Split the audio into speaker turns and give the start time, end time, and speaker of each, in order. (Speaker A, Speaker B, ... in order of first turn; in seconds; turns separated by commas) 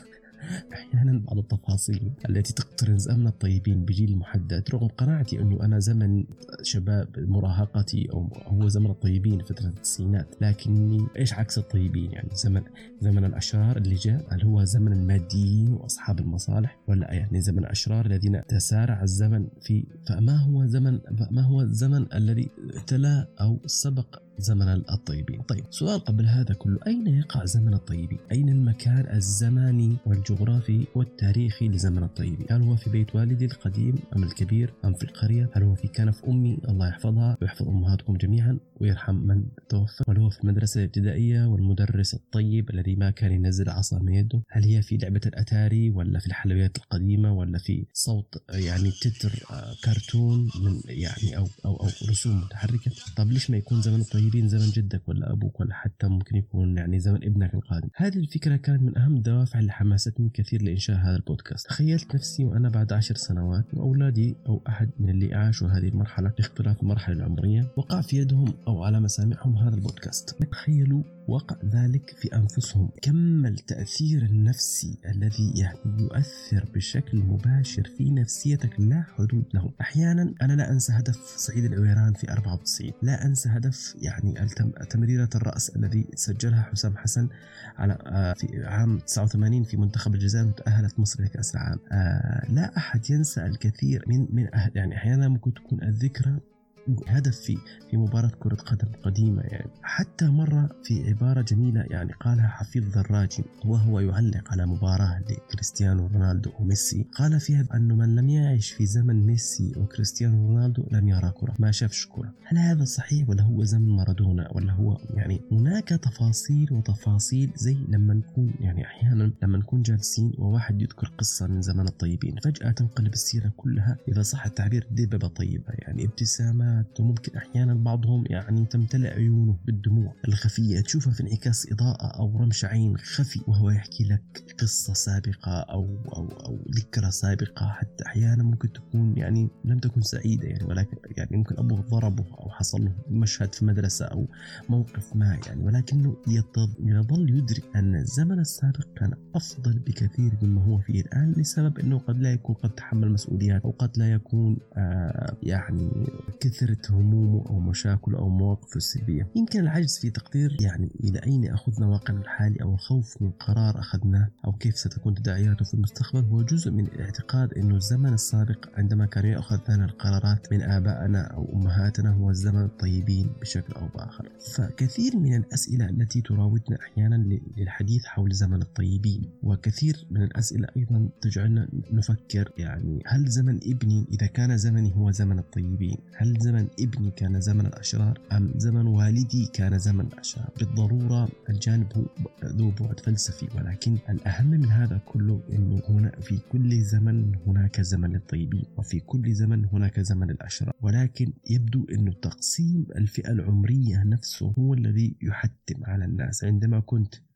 Speaker A: 0.4-87.3, Speaker A: 87.8-96.4, Speaker A: 96.9-207.2